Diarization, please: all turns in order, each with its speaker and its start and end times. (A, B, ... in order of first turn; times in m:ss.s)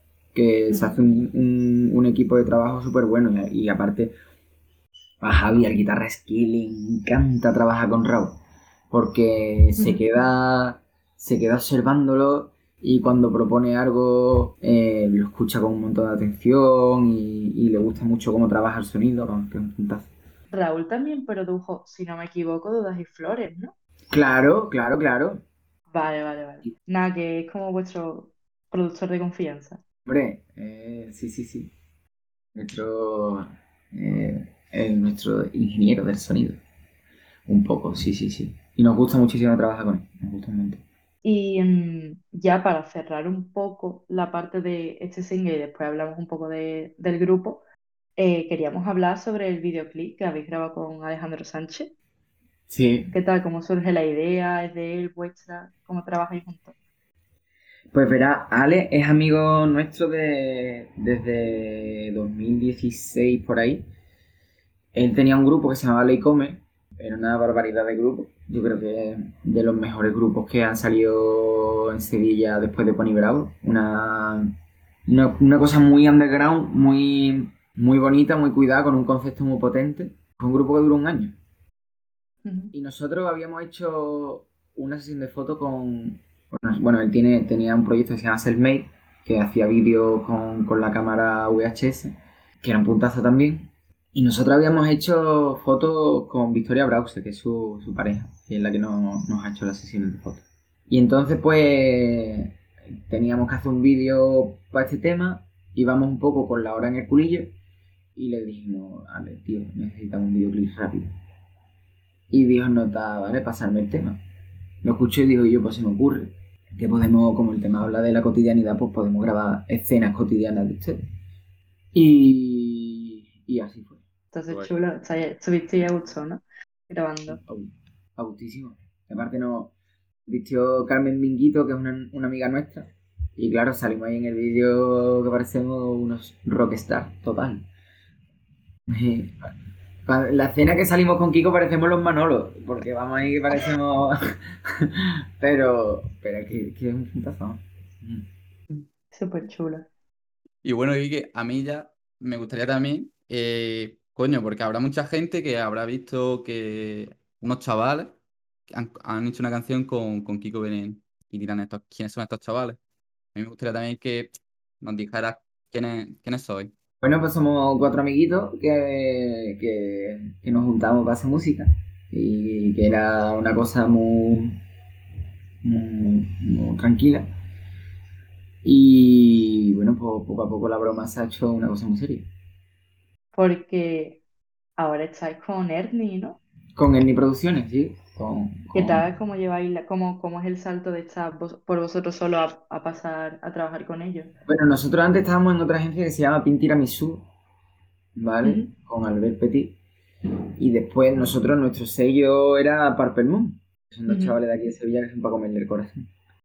0:00.3-0:04.1 A
0:00.7-0:01.0 B
0:05.2-0:08.4 A
0:08.9-0:20.1 A
0:20.5-0:23.7 B
0:24.1-0:25.4 A
0:25.9-0:29.8 B
0:30.0-0:31.7 A
0:32.5-0:36.6 A
0:37.5-0:40.8 A
0:41.2-0:47.6 B
0:48.2-0:51.9 B
0:52.7-0:53.1 A
0:53.1-0:56.7 B
0:57.9-1:03.8 A
1:04.9-1:14.5 A
1:15.1-1:21.4 A
1:22.4-1:22.7 B
1:22.7-1:42.5 A
1:43.1-1:47.5 A
1:48.2-1:51.1 A
1:52.3-1:54.2 A
1:54.8-2:01.0 A
2:01.9-2:04.0 A
2:04.3-2:07.4 B
2:07.3-2:09.7 A
2:10.3-2:17.6 A
2:18.9-2:19.4 A
2:20.0-2:28.2 A
2:29.1-2:29.9 B
2:30.6-2:38.1 C
2:38.7-2:42.8 C
2:43.3-2:46.7 C
2:47.0-2:54.6 A
2:55.6-2:57.3 A
2:58.6-3:02.3 A
3:03.3-3:04.2 B
3:04.8-3:06.4 B
3:06.8-3:09.0 A
3:08.7-3:14.3 B
3:14.5-3:17.3 A
3:18.2-3:19.8 A
3:18.4-3:18.7 B
3:20.6-3:26.1 A
3:24.1-3:24.4 B